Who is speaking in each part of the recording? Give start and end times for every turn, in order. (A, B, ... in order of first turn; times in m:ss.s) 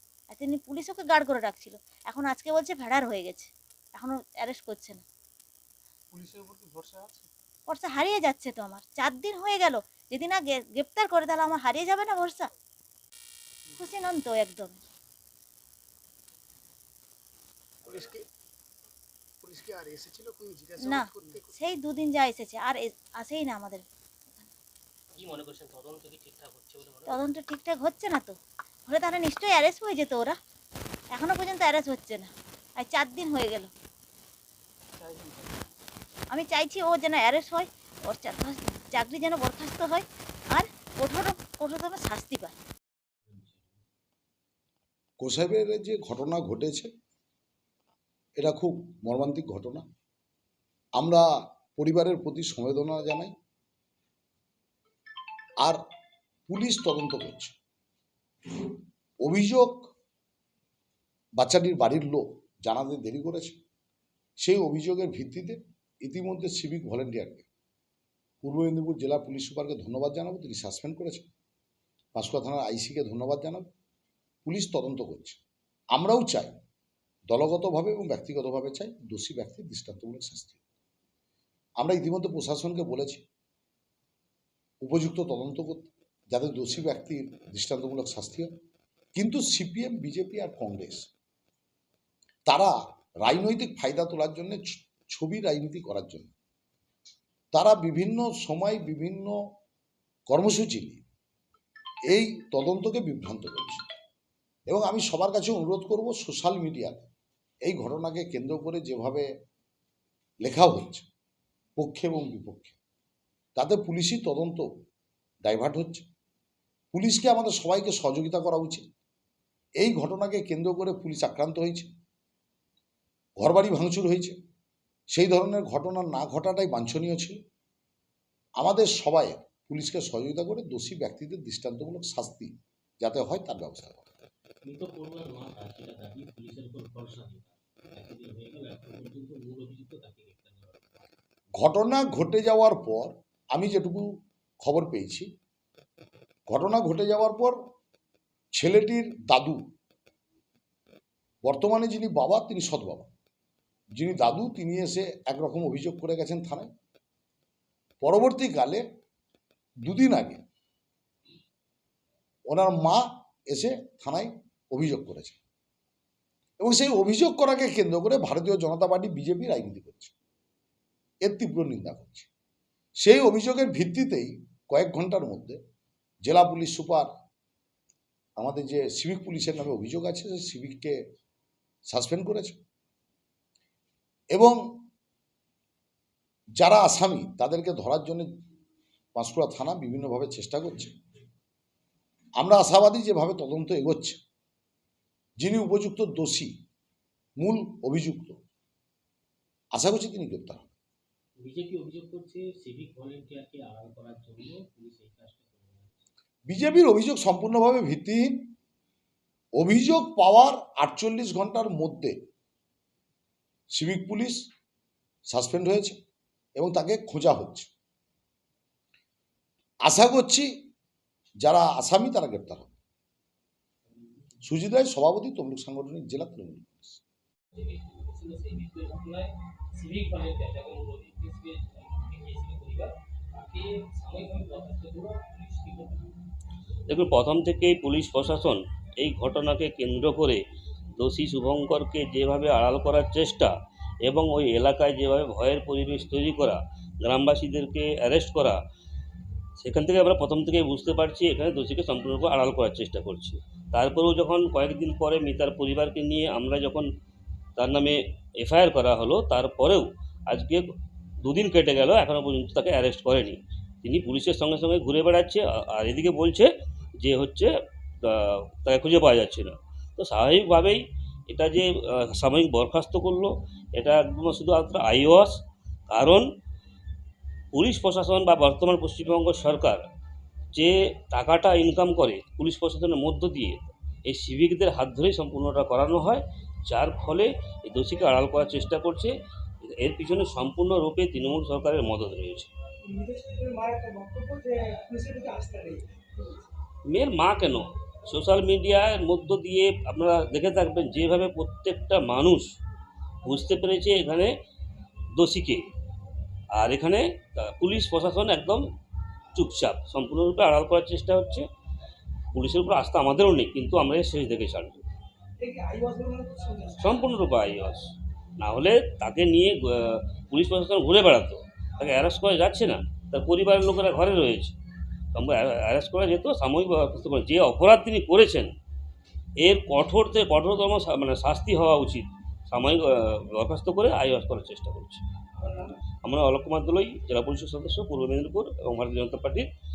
0:00.3-0:05.0 A
0:06.1-0:07.3 B
0:07.7-0:12.5 A
0:13.8-0:14.8 A
0:17.8-0:18.2 B
0:19.4-0:21.6 B
0:20.8-0:23.8 A
0:25.1-0:27.3 C
0:27.0-0:28.4 A
0:28.9-0:30.4 A
0:31.1-0:33.7 A
0:35.0-0:35.6 B
0:36.3-0:42.5 A
0:43.3-0:43.7 C
0:45.2-0:46.9 D
0:48.4-0:49.8 D
0:51.0-0:53.3 D
0:56.5-0:57.5 D
0:59.2-0:59.9 D
1:01.4-1:03.6 D
1:04.4-1:07.4 D
1:08.4-1:11.3 D
1:12.2-1:13.6 D
1:14.4-1:15.4 D
1:15.9-1:16.5 D
1:17.3-1:20.6 D
1:21.8-1:23.2 D
1:24.8-1:28.5 D
1:29.2-1:31.1 D
1:32.4-1:36.3 D
1:37.5-1:39.4 D
1:40.3-1:41.0 D
1:42.1-1:43.8 D
1:44.7-1:47.1 D
1:47.6-1:49.3 D
1:50.4-1:51.0 D
1:51.8-1:52.8 D
1:53.6-1:54.7 D
1:55.4-1:56.0 D
1:56.9-1:58.8 D
1:59.8-2:01.9 D
2:03.4-2:04.4 D
2:05.1-2:07.4 D
2:08.6-2:14.0 D
2:14.6-2:20.9 C
2:21.6-2:24.1 D
2:24.6-2:25.3 D
2:26.5-2:27.6 D
2:28.5-2:29.6 D
2:31.4-2:33.1 D
2:34.0-2:36.7 D
2:38.0-2:38.8 D
2:39.8-2:40.4 D
2:42.5-2:45.4 D
2:46.6-2:50.1 D
2:51.2-2:52.3 D
2:53.0-2:55.6 D
2:56.2-2:57.1 D
2:58.4-3:01.0 D
3:01.9-3:02.6 D
3:04.3-3:04.6 D
3:06.6-3:08.3 D
3:09.1-3:10.9 D
3:12.4-3:14.2 D
3:15.4-3:16.5 D
3:17.4-3:18.4 D
3:19.7-3:20.7 D
3:21.4-3:26.0 C
3:26.5-3:28.5 D
3:29.6-3:32.2 D
3:33.7-3:34.4 D
3:35.3-3:36.0 D
3:36.6-3:37.7 D
3:39.8-3:40.5 D
3:41.4-3:42.7 D
3:44.4-3:47.0 D
3:47.5-3:56.1 C
3:56.9-4:00.4 E
4:01.0-4:03.5 E
4:04.0-4:08.6 E
4:09.6-4:16.9 E
4:17.6-4:20.6 E
4:21.2-4:26.5 E
4:27.0-4:27.5 E
4:28.0-4:35.4 E
4:35.9-4:36.2 E
4:37.5-4:39.8 E
4:40.5-4:49.1 E
4:49.8-4:52.5 E
4:52.8-4:56.4 B
4:56.9-5:02.5 E
5:03.2-5:04.3 E
5:05.1-5:05.6 E
5:06.5-5:08.6 E
5:09.3-5:11.4 E
5:12.3-5:14.8 E
5:15.4-5:16.9 B
5:16.8-5:17.8 E
5:18.4-5:24.5 E
5:25.1-5:28.5 E
5:29.4-5:35.0 E
5:35.4-5:35.7 B
5:36.0-5:39.5 E